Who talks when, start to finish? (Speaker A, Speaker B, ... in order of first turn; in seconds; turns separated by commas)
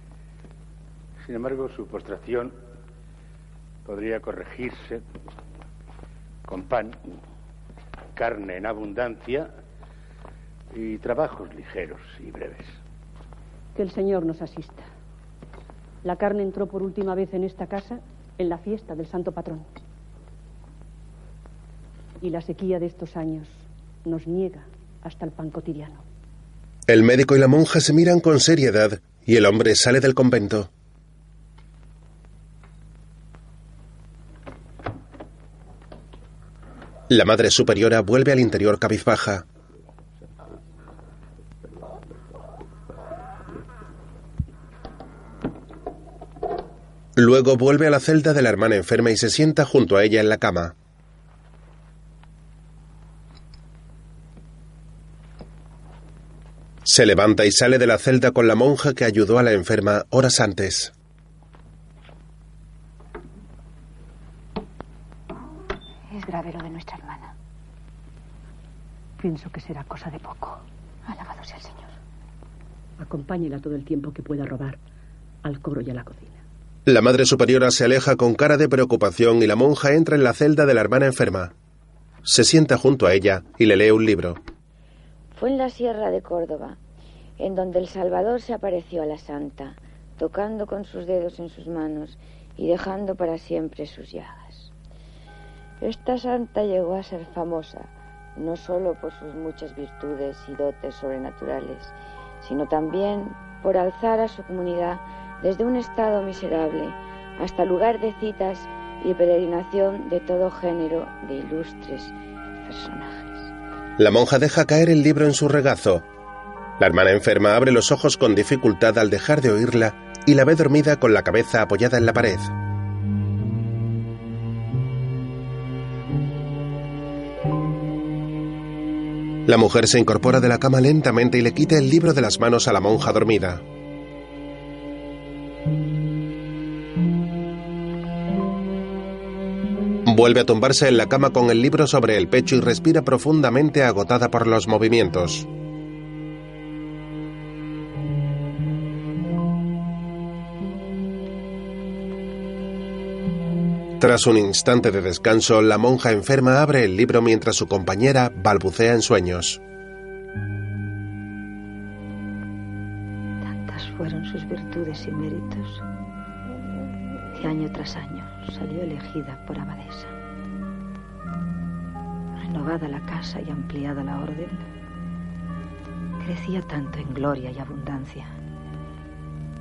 Speaker A: 1.2-2.6, Speaker A: 3.9-5.0, Speaker A: 6.5-7.0, Speaker A: 8.2-9.5, Speaker A: 10.7-12.8, Speaker B: 13.8-14.9, Speaker B: 16.0-19.7, Speaker B: 22.2-26.0, Speaker C: 26.9-30.7, Speaker C: 37.1-39.5, Speaker C: 47.2-50.7, Speaker C: 56.9-60.9, Speaker D: 66.1-67.3, Speaker B: 69.2-70.6, Speaker D: 71.1-71.9, Speaker B: 73.0-74.8, Speaker B: 75.4-76.4, Speaker C: 76.9-81.5, Speaker C: 82.2-84.4, Speaker E: 85.3-86.8, Speaker E: 87.4-94.7, Speaker E: 95.8-113.5, Speaker C: 114.0-116.1, Speaker C: 116.8-122.5, Speaker C: 129.5-133.6, Speaker C: 140.1-145.5, Speaker C: 154.0-159.6, Speaker D: 163.4-165.8, Speaker D: 167.3-170.1, Speaker D: 172.4-174.7, Speaker D: 176.2-178.4